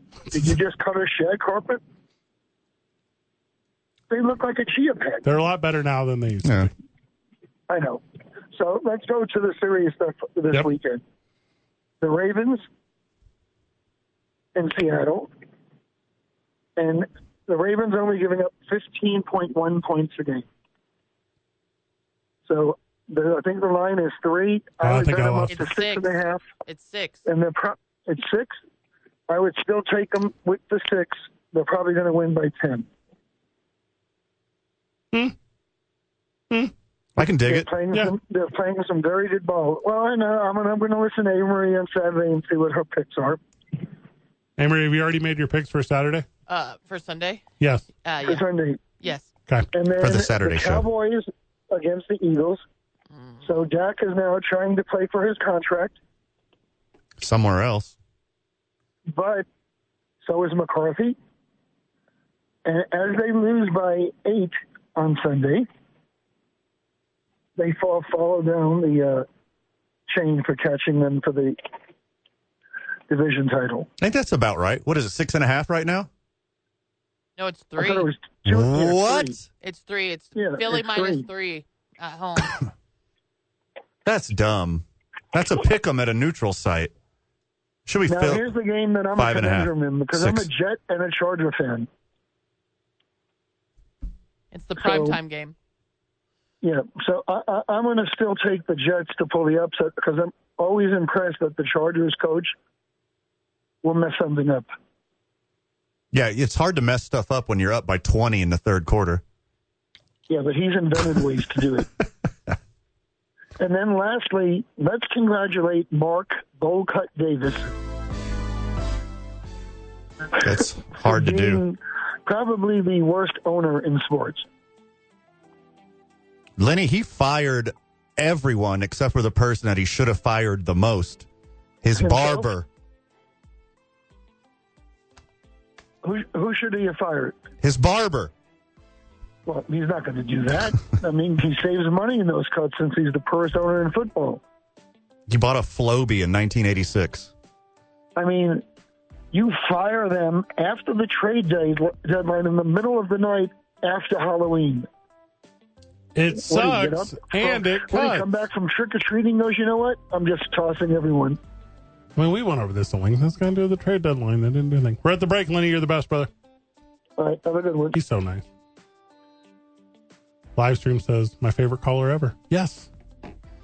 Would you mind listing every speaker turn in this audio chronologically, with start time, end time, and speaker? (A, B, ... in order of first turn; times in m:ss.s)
0:00.3-0:01.8 A
0:04.1-0:05.3 A
0:05.2-0:06.7 B
0:06.4-0:06.7 C
0:07.7-0:08.0 A
0:08.5-0:11.0 A
0:12.0-0:12.7 A
0:14.6-0:15.3 A
0:16.8-0:20.5 A
0:22.5-0:26.4 A
0:24.8-0:25.6 B
0:25.5-0:27.2 D
0:27.2-0:28.6 A
0:29.3-0:32.9 A
0:37.2-0:37.7 C
0:37.2-0:43.4 A
0:44.6-0:46.3 B
0:46.5-0:47.4 D
0:47.6-0:47.9 B
0:48.0-0:48.5 D
0:48.2-0:48.8 A
0:49.0-0:49.3 D
0:49.7-0:52.6 A
0:50.0-0:50.9 C
0:53.4-0:56.0 A
0:57.2-0:58.0 C
0:59.1-0:59.5 A
1:00.2-1:01.2 A
1:02.6-1:05.7 A
1:07.6-1:09.3 A
1:10.1-1:11.6 A
1:13.1-1:13.9 A
1:14.0-1:16.1 C
1:17.4-1:18.1 D
1:17.8-1:19.4 A
1:18.5-1:19.5 C
1:19.6-1:22.6 D
1:20.4-1:21.3 A
1:24.0-1:26.9 C
1:27.9-1:28.5 C
1:28.1-1:31.9 A
1:29.2-1:30.5 C
1:34.5-1:35.6 D
1:34.8-1:35.2 A
1:36.6-1:42.6 A
1:43.8-1:44.7 A
1:46.1-1:49.2 C
1:50.3-1:51.9 A
1:53.6-1:57.7 A
2:00.4-2:01.6 C
2:01.0-2:04.5 A
2:06.6-2:11.3 C
2:11.8-2:12.7 C
2:12.0-2:12.5 A
2:16.0-2:17.4 A
2:17.6-2:18.3 C
2:19.5-2:24.4 A
2:25.3-2:27.3 C
2:28.2-2:28.6 A
2:29.3-2:34.9 A
2:36.2-2:38.4 B
2:36.3-2:41.4 A
2:42.2-2:46.3 B
2:47.2-2:48.0 A
2:47.9-2:48.4 B
2:50.6-2:52.9 B